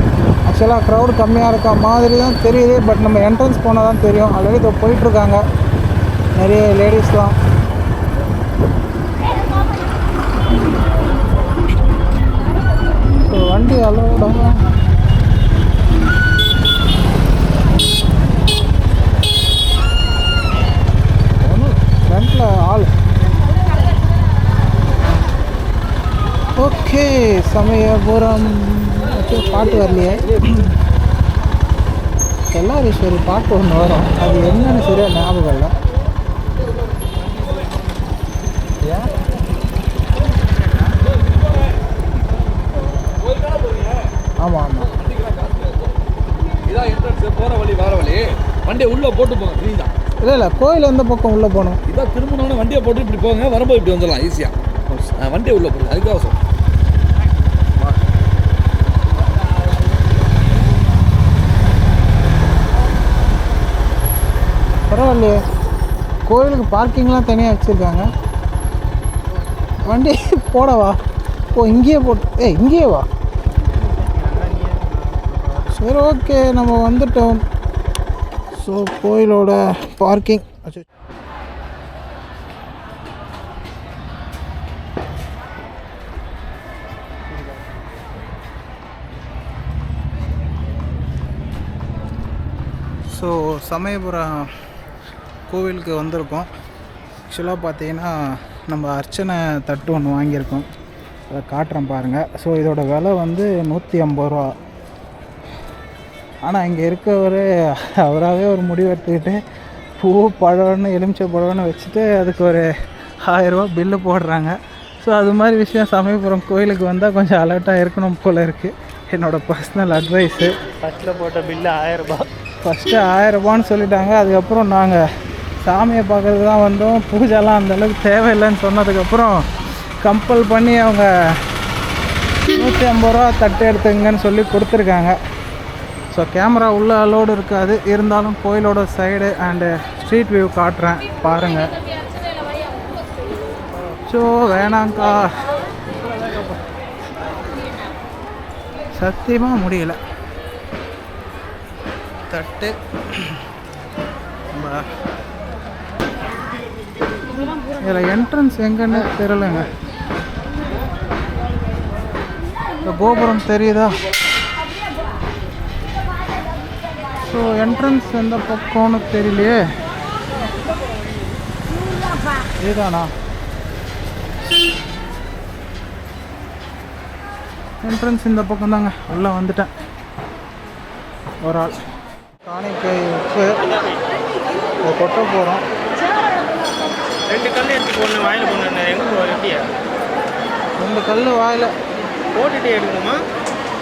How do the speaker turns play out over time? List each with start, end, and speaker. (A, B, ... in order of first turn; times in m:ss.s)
0:00.5-0:05.4 A
0:06.4-0:07.4 A
0:13.2-0:14.6 A
0:21.4-0:22.9 A
0:26.6-0:30.7 A
0:32.5-0:35.7 A
0:43.3-0:44.0 B
0:44.4-0:44.9 A
0:44.9-0:46.0 B
0:46.6-0:49.9 B
0:50.2-0:51.8 A
0:51.9-0:56.4 B
1:04.9-1:05.4 A
1:06.3-1:08.1 A
1:09.8-1:11.0 A
1:11.5-1:13.1 A
1:13.6-1:15.8 C
1:15.7-1:17.4 A
1:18.6-1:20.8 A
1:33.1-1:34.5 A
1:35.5-1:36.5 A
1:37.3-1:40.7 A
1:41.3-1:44.5 A
1:46.4-1:49.4 A
1:50.0-1:52.7 A
1:53.2-2:00.6 A
2:00.8-2:02.3 C
2:02.6-2:05.0 A
2:05.6-2:09.5 A
2:10.0-2:11.1 A
2:12.6-2:15.2 A
2:16.1-2:21.8 A
2:24.1-2:25.4 A
2:29.0-2:30.0 A
2:32.3-2:33.4 A
2:34.5-2:34.9 A
2:37.8-2:39.7 A
2:42.8-2:44.0 A
2:47.2-2:49.7 A
2:52.6-2:53.1 A
2:57.8-2:59.7 A
3:01.4-3:01.8 A
3:02.4-3:03.6 A
3:03.6-3:04.0 C
3:04.8-3:05.6 A
3:07.3-3:09.7 C
3:10.8-3:11.7 A
3:12.3-3:13.2 C